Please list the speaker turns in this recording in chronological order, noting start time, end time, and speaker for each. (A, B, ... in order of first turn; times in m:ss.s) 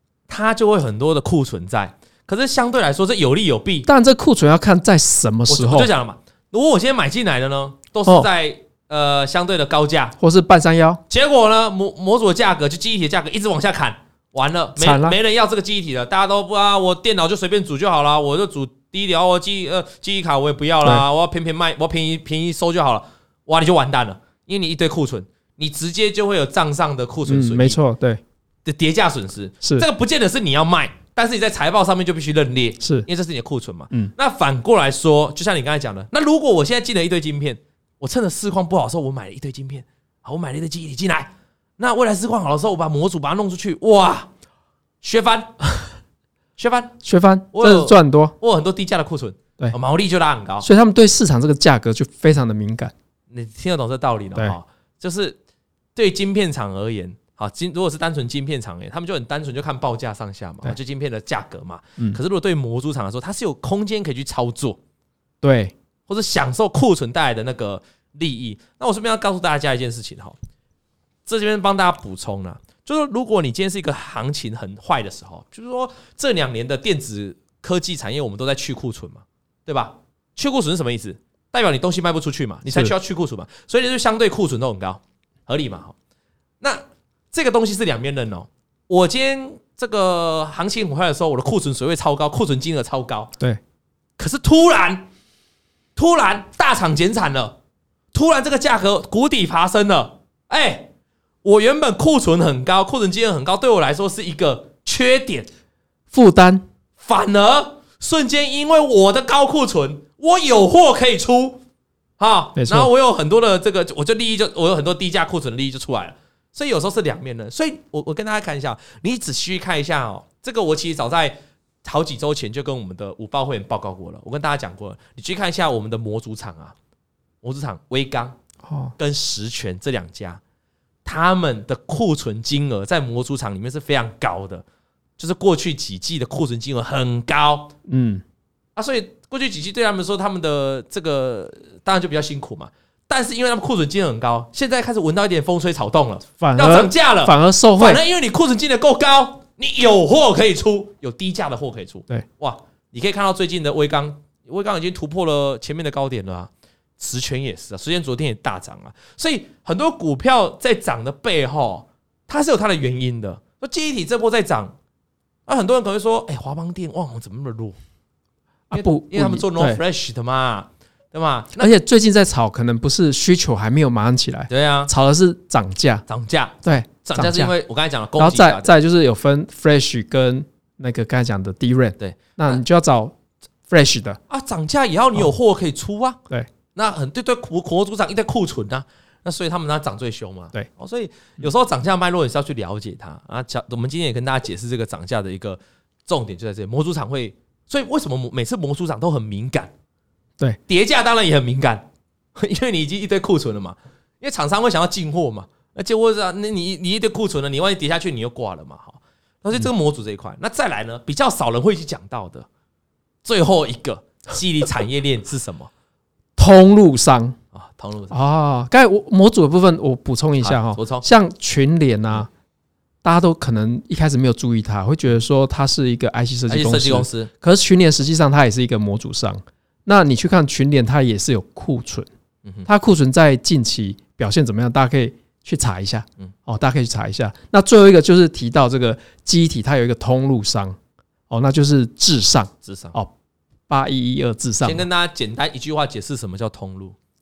0:00.3-0:03.9 A
0:03.9-0:05.9 B
0:05.5-0:10.2 A
0:10.2-0:11.0 B
0:11.1-0:27.8 A
0:14.8-0:15.2 B
0:27.3-0:28.2 B
0:28.6-0:44.3 A
0:32.8-0:33.1 B
0:45.0-0:45.5 A
0:46.6-0:47.0 A
0:47.0-0:48.4 B
0:47.5-0:50.7 A
0:50.6-0:52.9 B
0:53.3-0:55.4 A
0:56.0-1:04.8 A
1:05.4-1:05.7 B
1:06.1-1:10.4 A
1:11.3-1:26.0 A
1:22.7-1:22.9 B
1:26.6-1:33.3 A
1:34.2-1:35.0 A
1:36.0-1:37.6 A
1:38.1-1:40.9 A
1:41.4-1:45.5 A
1:46.1-1:46.7 B
1:47.0-1:51.6 A
1:52.2-2:06.8 A
1:52.6-1:52.9 B
2:07.4-2:08.4 A
2:08.7-2:09.0 B
2:09.0-2:10.4 A
2:11.0-2:14.6 A
2:15.2-2:17.7 A
2:17.9-2:18.2 B
2:18.8-2:44.8 A
2:26.4-2:28.0 B
2:45.5-2:47.8 A
2:48.7-2:49.8 B
2:48.7-2:51.7 A
2:51.6-2:56.0 B
2:54.5-2:54.9 A
2:56.1-2:58.7 A
2:56.6-2:57.5 B
2:58.2-3:03.2 B
3:02.0-3:02.6 A
3:03.7-3:04.2 B
3:04.3-3:06.2 A
3:06.8-3:19.7 A
3:20.7-3:32.5 A
3:33.2-3:35.7 A
3:36.4-3:37.4 B
3:37.5-3:38.2 A
3:38.1-3:42.3 B
3:40.4-3:41.0 A
3:43.0-3:52.1 B
3:46.5-3:47.3 A
3:52.7-4:00.8 B
4:01.3-4:03.1 B
4:02.6-4:03.0 A
4:03.7-4:04.9 B
4:04.6-4:07.0 A